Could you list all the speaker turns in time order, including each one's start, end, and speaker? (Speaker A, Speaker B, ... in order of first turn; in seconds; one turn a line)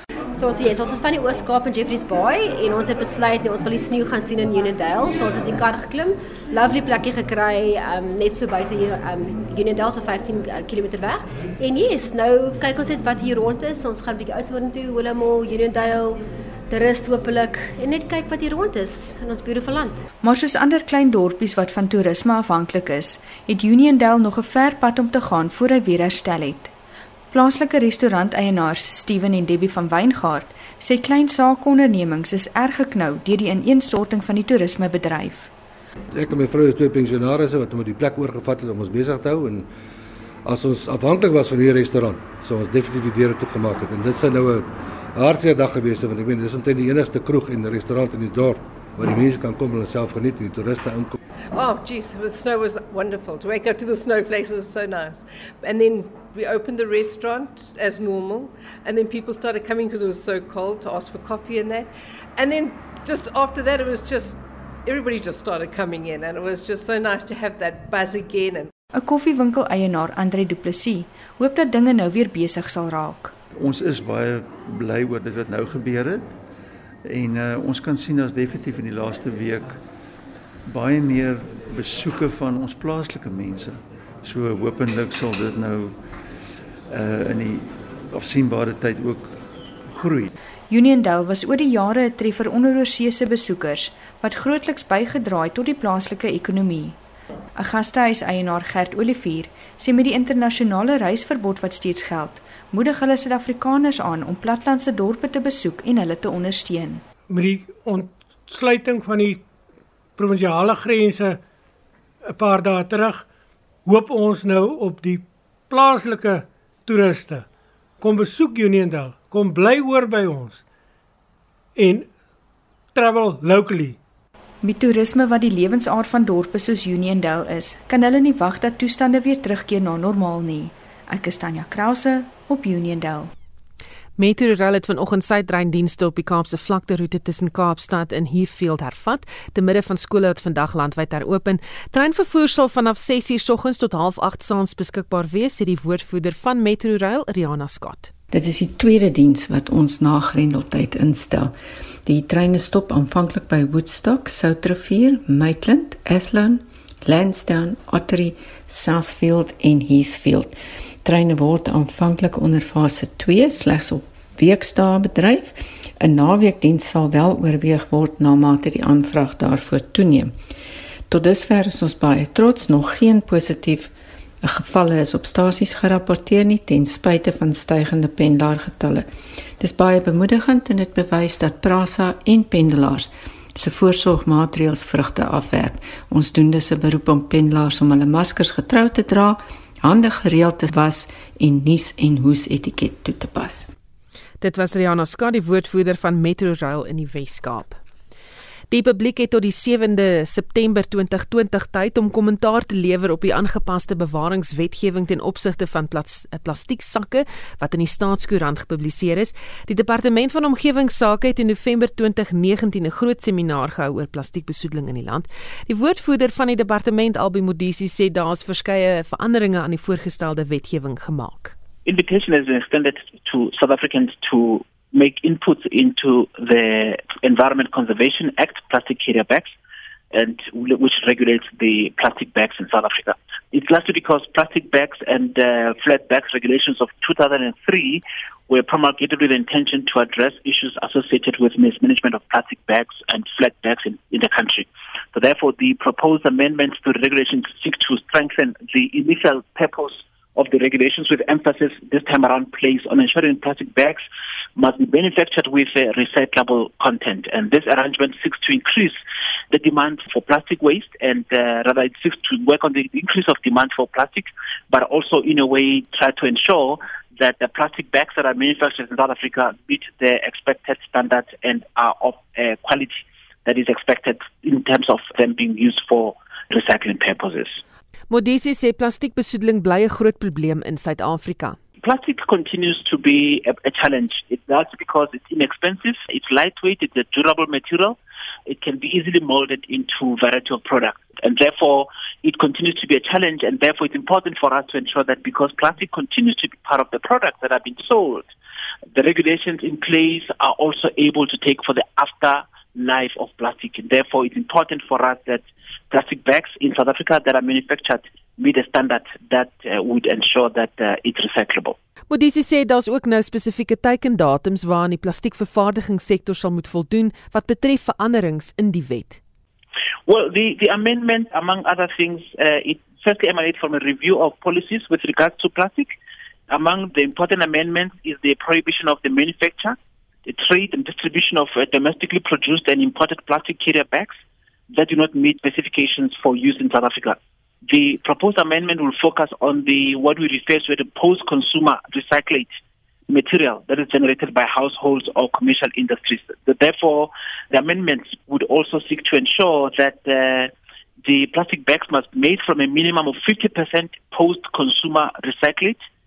Speaker A: 0.3-20.0
Speaker B: 20.2-26.7
Speaker B: 27.3-35.5
Speaker C: 36.1-39.7
Speaker C: 40.4-51.1
Speaker D: 51.5-68.7
Speaker B: 68.9-73.3
Speaker E: 73.5-76.4
Speaker E: 77.0-79.8
Speaker E: 80.7-86.0
Speaker E: 86.9-90.3
Speaker B: 90.7-97.0
Speaker B: 97.5-107.0
Speaker F: 107.3-109.4
Speaker F: 110.2-111.4
Speaker F: 112.3-113.2
Speaker F: 113.8-117.5
Speaker F: 118.0-120.6
Speaker F: 121.8-122.1
Speaker F: 122.9-124.0
Speaker B: 124.6-133.3
Speaker G: 134.2-148.1
Speaker H: 148.3-170.3
Speaker H: 171.1-179.1
Speaker H: 179.6-193.7
Speaker G: 194.4-197.8
Speaker G: 198.7-221.5
Speaker I: 221.8-229.5
Speaker I: 230.1-254.0
Speaker I: 254.6-259.0
Speaker I: 259.5-277.6
Speaker G: 278.1-281.6
Speaker I: 281.8-298.3
Speaker I: 298.9-311.8
Speaker G: 312.1-319.2
Speaker I: 320.1-325.9
Speaker I: 326.5-334.1
Speaker I: 334.7-342.5
Speaker I: 343.1-350.5
Speaker I: 351.0-355.8